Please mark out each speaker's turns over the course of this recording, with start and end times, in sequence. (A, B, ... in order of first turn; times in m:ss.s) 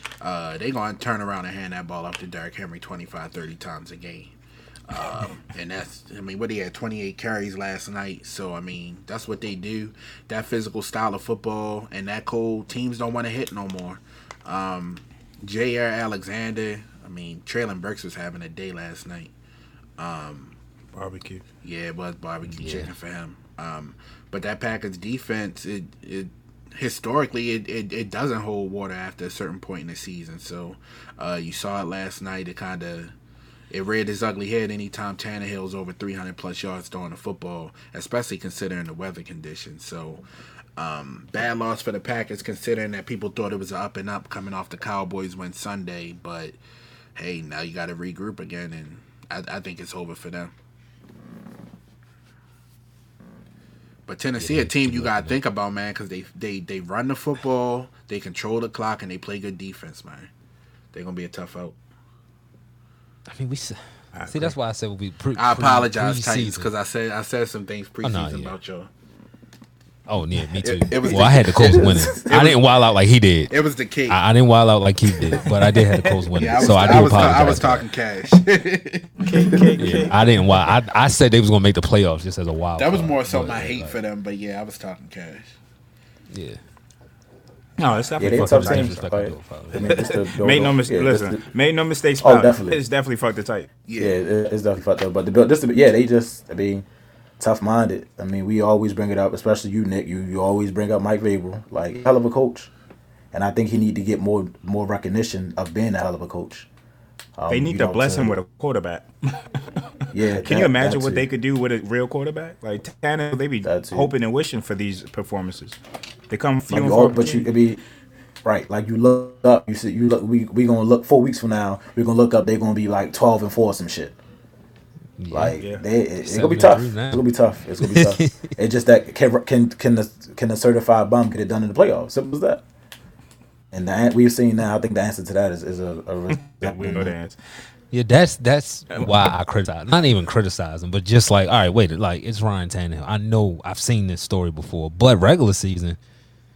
0:00.2-0:04.3 A
0:04.9-0:19.3 A
0:20.0-0:20.6 A
0:20.9-0:21.4 B
0:21.6-0:33.1 A
0:22.4-0:22.9 C
0:33.7-0:40.2 A
0:40.8-0:46.6 A
0:47.2-0:50.5 A
0:54.1-1:00.3 A
0:54.4-0:55.4 C
1:00.9-1:01.8 A
1:03.3-1:06.7 C
1:04.1-1:04.5 B
1:05.4-1:08.9 A
1:08.0-1:08.5 C
1:10.1-1:13.5 C
1:10.4-1:12.7 A
1:11.6-1:12.1 D
1:13.5-1:14.2 A
1:14.1-1:17.8 C
1:15.2-1:15.5 A
1:15.9-1:17.5 B
1:16.4-1:19.8 A
1:19.2-1:20.4 B
1:19.8-1:24.0 C
1:22.8-1:25.5 A
1:26.3-1:26.6 C
1:27.8-1:29.1 B
1:28.2-1:31.4 D
1:28.2-1:30.0 C
1:29.7-1:33.7 B
1:32.2-1:32.8 D
1:33.9-1:34.2 A
1:34.0-1:36.8 D
1:37.4-1:42.7 D
1:43.3-1:46.7 D
1:47.4-1:48.4 D
1:47.5-1:49.1 B
1:50.1-1:51.3 D
1:50.4-1:55.8 B
1:53.6-1:54.1 D
1:56.3-1:57.5 B
1:56.7-1:57.8 D
1:58.4-2:04.2 D
2:05.2-2:05.6 C
2:05.3-2:12.6 D
2:05.6-2:05.8 B
2:06.2-2:07.2 C
2:07.8-2:08.5 C
2:13.7-2:17.2 D
2:16.3-2:17.4 B
2:17.9-2:26.0 C